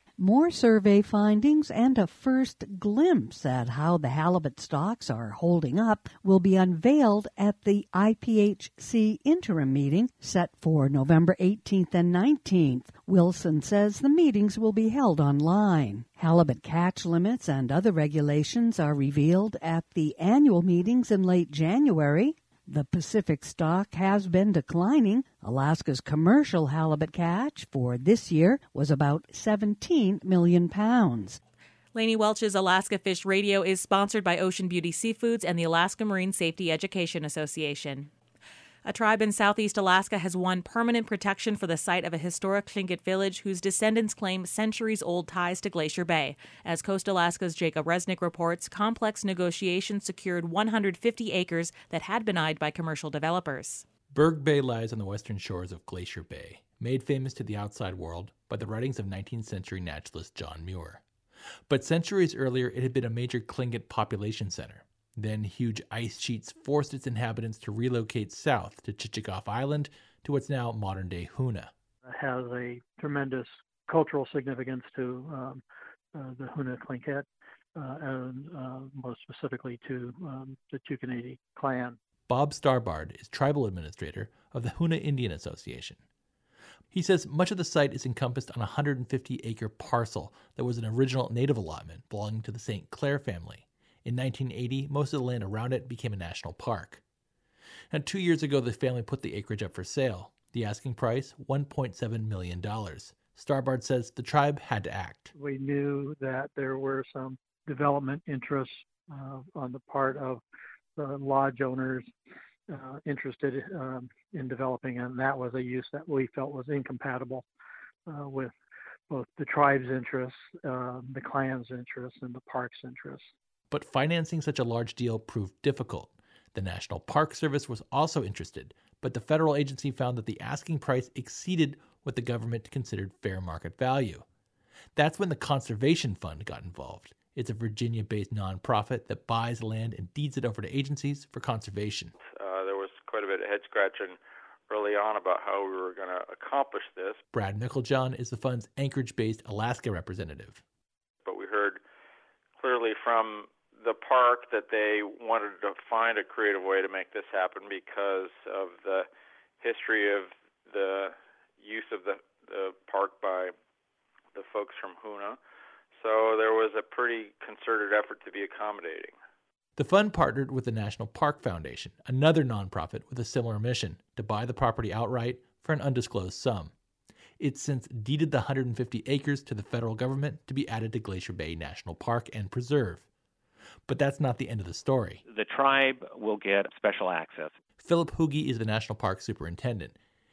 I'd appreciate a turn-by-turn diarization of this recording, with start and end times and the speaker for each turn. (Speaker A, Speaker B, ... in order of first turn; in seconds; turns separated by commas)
Speaker A: 0.2-31.4, Speaker B: 31.9-38.1, Speaker B: 38.9-53.9, Speaker C: 54.1-61.0, Speaker C: 61.7-71.7, Speaker D: 72.1-75.6, Speaker D: 76.2-82.0, Speaker C: 82.3-86.0, Speaker C: 86.9-97.0, Speaker C: 97.9-105.3, Speaker D: 105.3-110.4, Speaker D: 111.0-112.1, Speaker D: 112.7-117.5, Speaker D: 118.1-118.5, Speaker D: 119.1-123.2, Speaker C: 123.7-134.3, Speaker C: 135.0-142.2, Speaker E: 142.3-147.2, Speaker C: 147.3-150.6, Speaker E: 151.2-151.8, Speaker E: 152.6-159.1, Speaker E: 159.6-163.5, Speaker E: 164.3-165.4, Speaker E: 166.0-169.2, Speaker C: 169.8-176.7, Speaker C: 177.4-183.1, Speaker C: 183.9-185.2, Speaker F: 185.3-187.5, Speaker C: 187.8-190.0